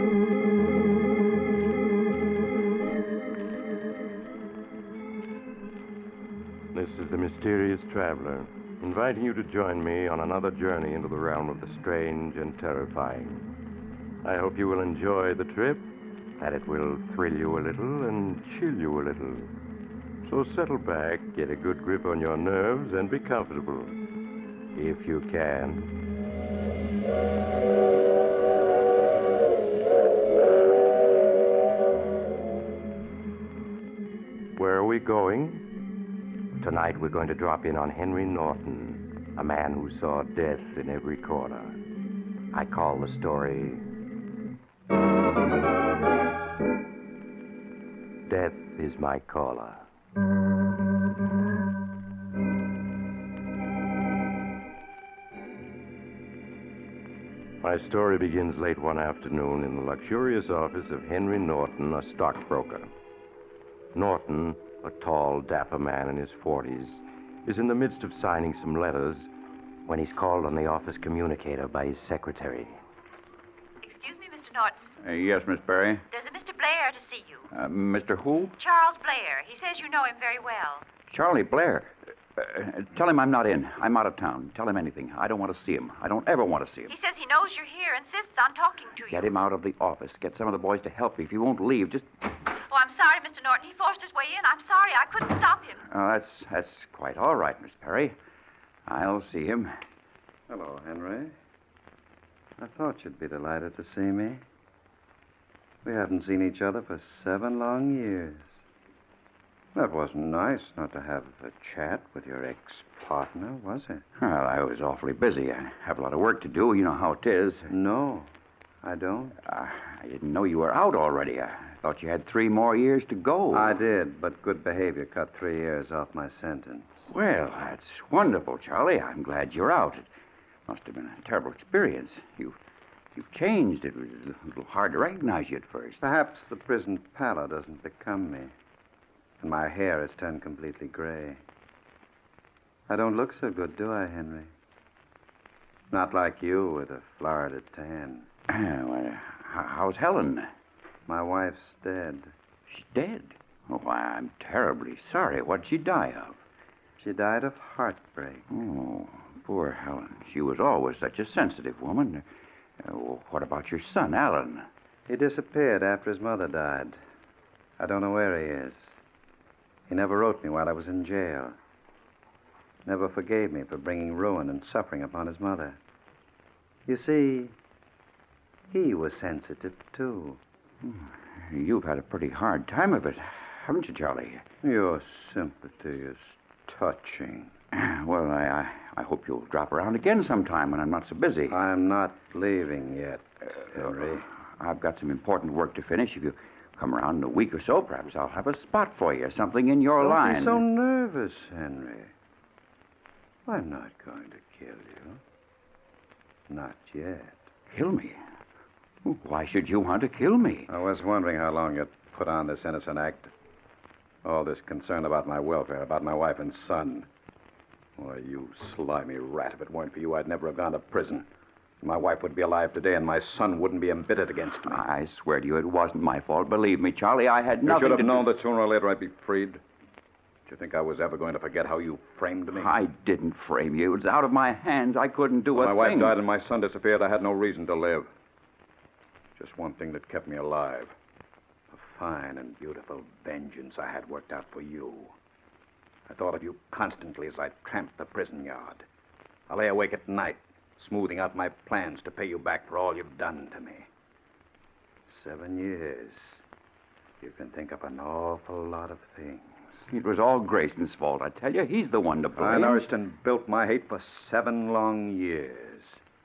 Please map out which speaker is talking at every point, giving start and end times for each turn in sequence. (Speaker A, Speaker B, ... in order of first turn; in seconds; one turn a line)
Speaker A: 6.7-13.5
Speaker A: 14.2-15.9
Speaker A: 16.4-19.5
Speaker A: 20.2-24.0
Speaker A: 24.8-25.9
Speaker A: 34.6-35.6
Speaker A: 36.6-41.8
Speaker A: 42.5-43.8
Speaker A: 48.3-49.8
Speaker A: 57.6-62.9
Speaker A: 63.9-69.3
Speaker A: 69.9-72.8
Speaker B: 73.8-74.8
Speaker C: 75.0-76.0
Speaker B: 76.1-77.5
Speaker C: 77.5-78.5
Speaker B: 78.6-80.9
Speaker C: 81.1-86.9
Speaker B: 86.9-89.3
Speaker C: 89.1-92.1
Speaker B: 92.6-95.8
Speaker C: 95.9-98.2
Speaker C: 98.9-99.7
Speaker D: 100.5-101.3
Speaker D: 102.6-104.4
Speaker D: 105.8-108.6
Speaker D: 109.8-114.0
Speaker C: 114.2-117.7
Speaker D: 117.7-118.3
Speaker D: 118.8-119.4
Speaker C: 119.5-123.8
Speaker D: 123.5-127.1
Speaker C: 127.1-130.1
Speaker C: 130.7-132.6
Speaker C: 133.2-136.0
Speaker D: 136.0-138.5
Speaker D: 139.4-141.4
Speaker D: 142.9-144.5
Speaker D: 145.9-148.3
Speaker C: 148.5-150.5
Speaker D: 151.1-152.3
Speaker C: 152.7-156.4
Speaker D: 157.0-158.4
Speaker C: 158.5-162.2
Speaker C: 162.8-164.7
Speaker D: 165.1-167.0
Speaker D: 167.8-168.9
Speaker D: 169.9-171.6
Speaker D: 172.9-175.8
Speaker D: 176.9-177.6
Speaker D: 178.7-180.4
Speaker C: 180.8-184.4
Speaker D: 184.6-187.5
Speaker C: 187.7-191.6
Speaker D: 191.5-194.3
Speaker C: 194.6-200.6
Speaker D: 200.0-202.1
Speaker D: 203.5-205.2
Speaker D: 206.5-207.5
Speaker C: 207.7-208.2
Speaker C: 209.1-210.7
Speaker D: 210.7-213.3
Speaker D: 214.2-217.1
Speaker D: 218.0-221.3
Speaker D: 221.8-224.8
Speaker C: 224.7-228.2
Speaker D: 227.7-229.6
Speaker D: 230.5-232.8
Speaker C: 232.5-236.2
Speaker D: 235.5-238.1
Speaker D: 239.4-241.0
Speaker D: 241.7-245.2
Speaker D: 246.1-248.9
Speaker D: 249.5-253.9
Speaker D: 255.1-256.4
Speaker D: 257.2-259.9
Speaker C: 259.9-262.9
Speaker D: 262.4-266.0